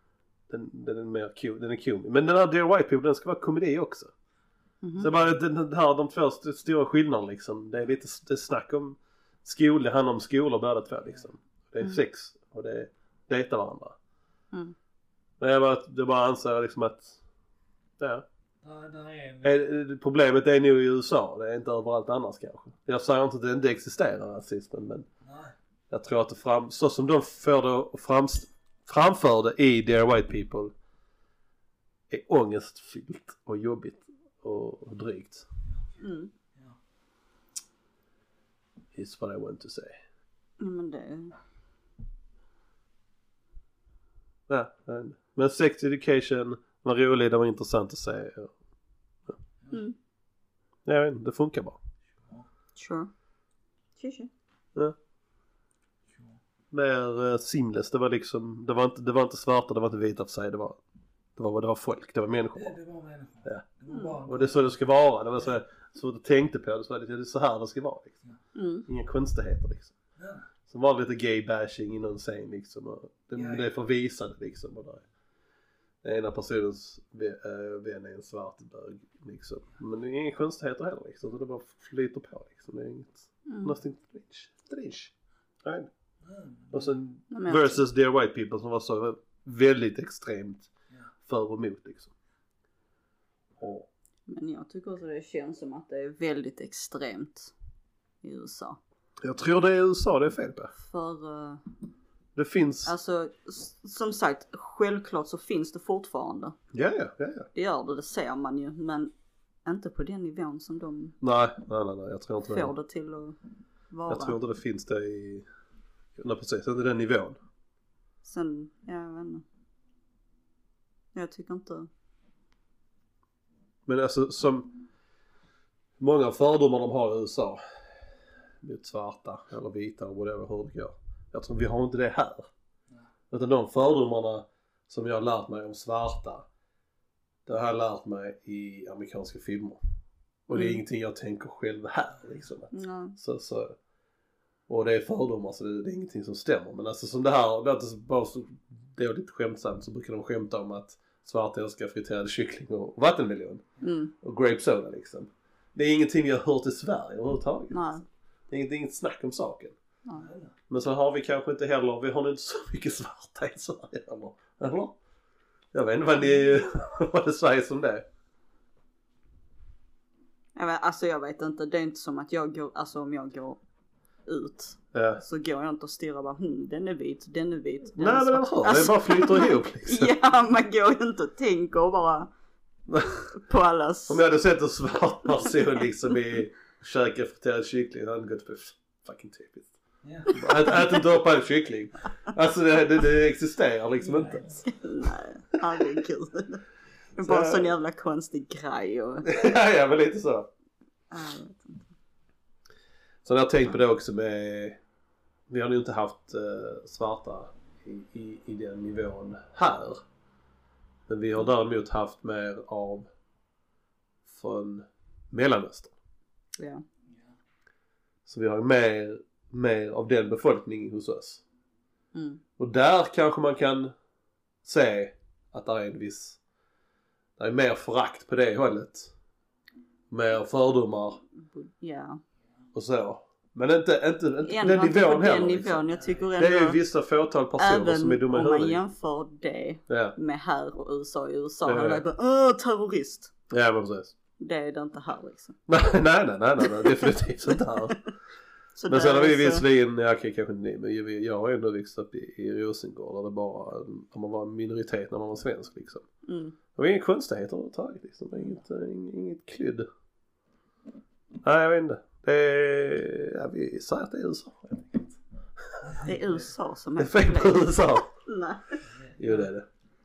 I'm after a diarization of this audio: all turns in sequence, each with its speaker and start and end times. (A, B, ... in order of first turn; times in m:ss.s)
0:00.5-0:04.1 A
0:04.8-0:05.1 B
0:05.0-0:14.0 A
0:15.4-0:17.2 A
0:18.0-0:18.2 A
0:18.6-0:19.5 C
0:19.4-0:25.1 A
0:25.2-0:25.5 C
0:25.9-0:30.7 A
0:32.1-0:35.4 A
0:36.0-0:36.3 B
0:39.0-0:40.0 A
0:40.6-0:41.4 B
0:44.5-0:48.5 A
0:49.7-0:50.0 B
0:50.9-0:51.8 A
0:52.8-0:53.1 B
0:54.0-0:54.3 B
0:56.1-0:56.4 C
0:56.7-1:00.8 A
1:01.4-1:02.8 A
1:02.6-1:04.8 C
1:03.9-1:04.2 B
1:04.3-1:08.2 A
1:08.6-1:08.9 B
1:08.9-1:09.9 A
1:10.2-1:10.5 C
1:10.7-1:15.0 A
1:13.3-1:13.7 C
1:16.0-1:25.1 A
1:23.5-1:23.7 B
1:25.6-1:25.9 A
1:26.2-1:27.1 C
1:26.7-1:30.7 A
1:27.3-1:27.8 B
1:31.3-1:32.1 A
1:33.6-1:33.9 A
1:34.3-1:37.5 B
1:38.2-1:38.8 B
1:39.2-1:40.7 A
1:40.8-1:41.6 B
1:42.4-1:42.9 A
1:42.9-1:46.6 B
1:46.7-1:47.5 A
1:47.6-1:49.1 B
1:49.6-1:51.2 B
1:51.2-1:52.7 A
1:52.5-1:53.4 B
1:53.9-1:54.4 B
1:54.1-1:55.5 A
1:56.2-1:57.4 A
1:58.2-1:59.4 B
2:01.1-2:01.9 B
2:03.9-2:04.8 A
2:06.0-2:07.6 A
2:08.6-2:12.5 A
2:13.3-2:16.4 A
2:17.5-2:19.8 A
2:20.5-2:23.8 A
2:20.5-2:20.8 B
2:22.7-2:23.2 B
2:24.7-2:33.6 A
2:33.8-2:34.1 B
2:34.2-2:37.9 A
2:37.7-2:38.0 B
2:38.5-2:39.8 A
2:40.1-2:40.5 C
2:40.7-2:45.0 A
2:45.7-2:48.0 A
2:50.6-2:53.6 B
2:54.3-3:02.3 B
2:54.9-2:55.2 A
2:58.0-3:00.1 A
3:02.9-3:03.3 A
3:03.3-3:04.2 B
3:04.1-3:09.7 A
3:10.0-3:10.3 C
3:10.3-3:14.6 A
3:10.3-3:11.0 B
3:14.0-3:14.6 C
3:14.6-3:16.6 B
3:17.2-3:19.4 B
3:17.2-3:17.7 A
3:19.2-3:20.5 A
3:21.1-3:21.9 B
3:23.2-3:24.8 A
3:25.5-3:30.0 A
3:31.1-3:33.1 A
3:34.3-3:35.9 A
3:36.6-3:36.8 B
3:38.3-3:41.4 A
3:42.1-3:42.4 B
3:42.6-3:43.9 A
3:44.6-3:46.4 A
3:47.4-3:49.1 A
3:50.1-3:51.2 A
3:51.4-3:52.2 B
3:52.8-3:55.8 A
3:54.4-3:56.8 B
3:56.4-3:58.8 A
3:57.6-4:03.3 B
3:59.9-4:00.2 A
4:01.6-4:02.0 A
4:03.5-4:04.2 A
4:04.4-4:05.6 B
4:05.7-4:08.0 A
4:06.8-4:07.1 B
4:08.8-4:09.6 B
4:08.9-4:16.1 A
4:16.3-4:16.6 B
4:16.8-4:19.9 A
4:21.4-4:26.0 A
4:26.0-4:28.8 B
4:27.0-4:28.1 A
4:29.0-4:29.5 C
4:29.2-4:29.7 A